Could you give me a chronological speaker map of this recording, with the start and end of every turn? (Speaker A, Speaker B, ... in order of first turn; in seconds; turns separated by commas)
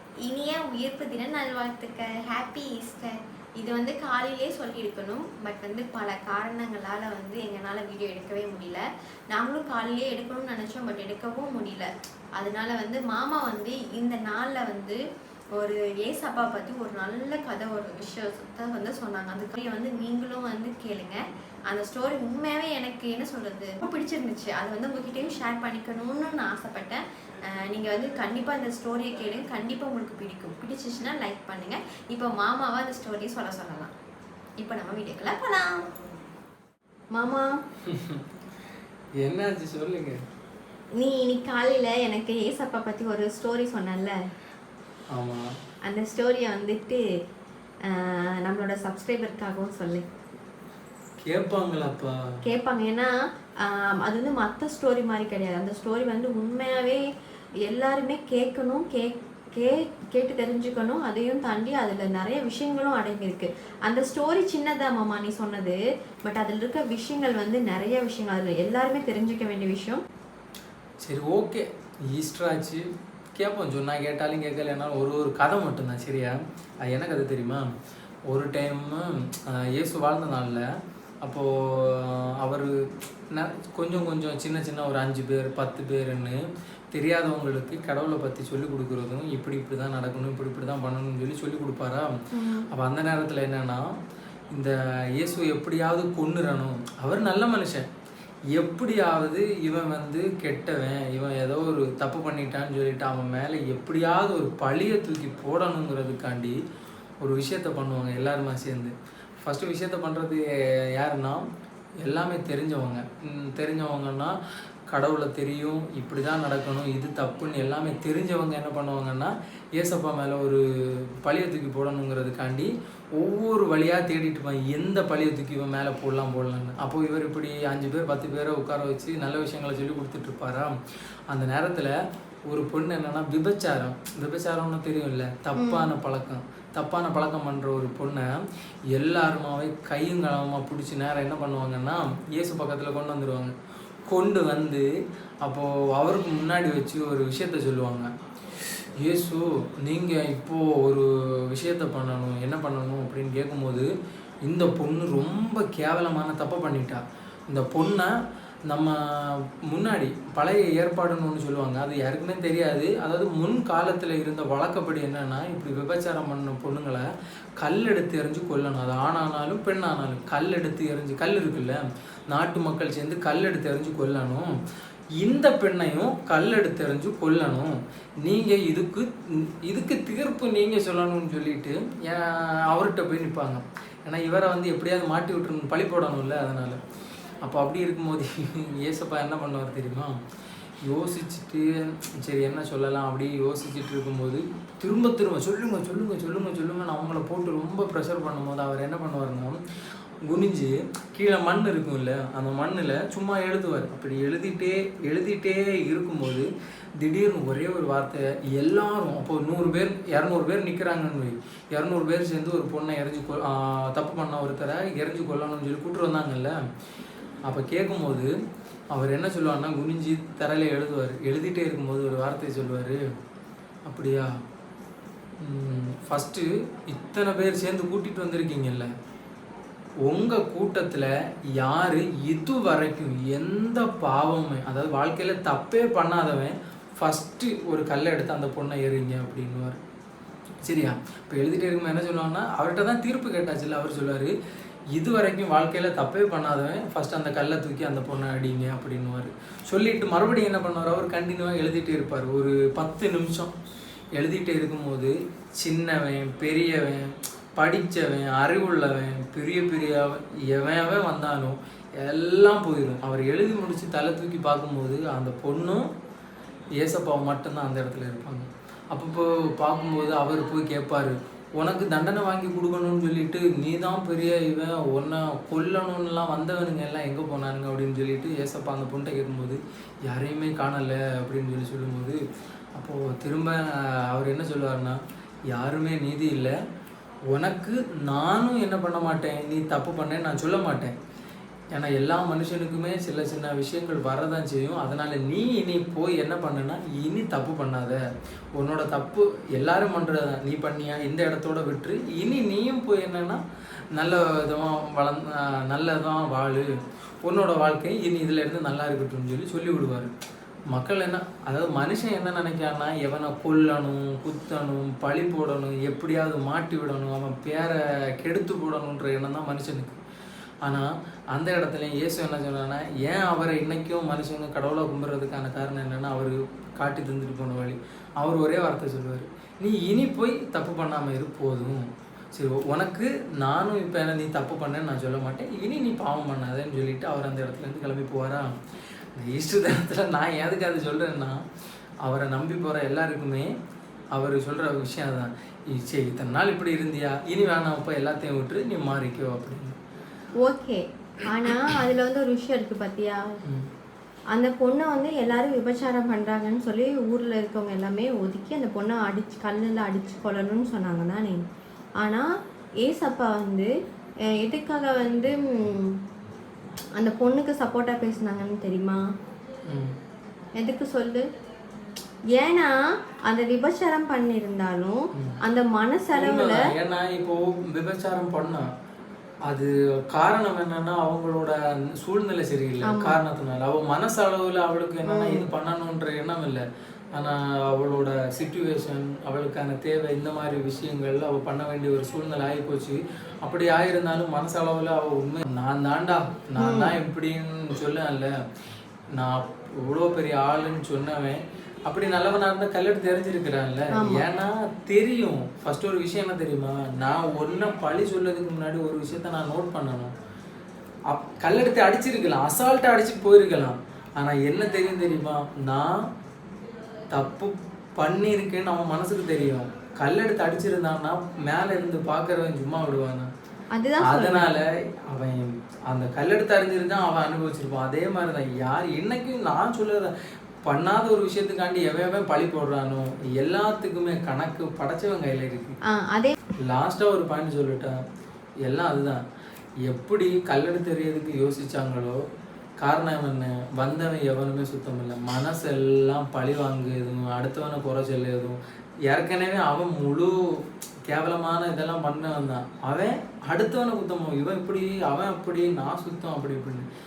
Speaker A: 0.2-15.0, Speaker A: 15.6-33.9, Speaker A: 34.6-35.9, Speaker A: 37.1-37.6, Speaker B: 37.8-38.2, Speaker B: 39.2-40.2, Speaker A: 41.0-44.1, Speaker B: 45.1-45.5, Speaker A: 45.9-47.0, Speaker A: 47.9-50.0, Speaker B: 51.2-52.4, Speaker A: 52.4-57.0, Speaker A: 57.7-70.0, Speaker B: 71.0-77.7, Speaker B: 78.3-80.7, Speaker B: 81.2-92.2, Speaker A: 92.3-92.7, Speaker B: 92.7-93.9, Speaker B: 94.5-97.9, Speaker B: 98.5-106.6, Speaker B: 107.2-111.5, Speaker B: 112.0-114.4, Speaker B: 114.9-130.8, Speaker B: 131.3-131.9, Speaker B: 132.5-138.3, Speaker A: 135.5-135.9, Speaker B: 138.9-143.5, Speaker B: 144.1-144.9, Speaker B: 145.4-148.1, Speaker B: 149.0-153.9, Speaker B: 154.4-158.1, Speaker B: 158.7-167.1, Speaker B: 167.6-174.5, Speaker B: 175.2-186.8, Speaker B: 187.4-190.2, Speaker B: 190.8-199.6, Speaker B: 200.2-216.6, Speaker B: 217.5-218.3, Speaker B: 218.9-223.0, Speaker B: 223.9-224.3, Speaker B: 225.4-228.9, Speaker B: 230.0-239.8, Speaker B: 240.6-244.3, Speaker B: 244.9-253.5, Speaker B: 254.2-265.9, Speaker B: 266.8-282.2, Speaker B: 282.8-285.0, Speaker B: 285.5-286.6, Speaker B: 287.3-290.9, Speaker B: 291.7-298.0, Speaker B: 298.6-303.4, Speaker B: 303.9-310.1, Speaker B: 310.7-320.0, Speaker B: 320.6-338.5, Speaker B: 339.1-341.4, Speaker B: 342.0-343.5, Speaker B: 344.1-349.8, Speaker A: 350.4-353.3, Speaker A: 354.3-361.4, Speaker A: 362.0-362.2, Speaker A: 362.8-363.7, Speaker A: 364.4-366.0, Speaker A: 367.0-369.0, Speaker B: 369.7-370.0, Speaker A: 370.6-371.2, Speaker A: 372.3-372.7, Speaker A: 373.2-376.7, Speaker B: 376.1-378.7, Speaker B: 379.5-398.3, Speaker A: 382.8-383.2, Speaker A: 385.1-385.4, Speaker A: 396.6-396.9, Speaker B: 399.1-410.1, Speaker A: 403.9-404.2, Speaker B: 411.1-416.1, Speaker B: 417.1-423.3, Speaker A: 423.7-424.5, Speaker B: 424.0-430.1, Speaker B: 430.6-435.8, Speaker A: 435.9-436.4, Speaker B: 436.6-438.0, Speaker B: 438.6-439.2, Speaker B: 439.9-442.2, Speaker B: 442.8-456.9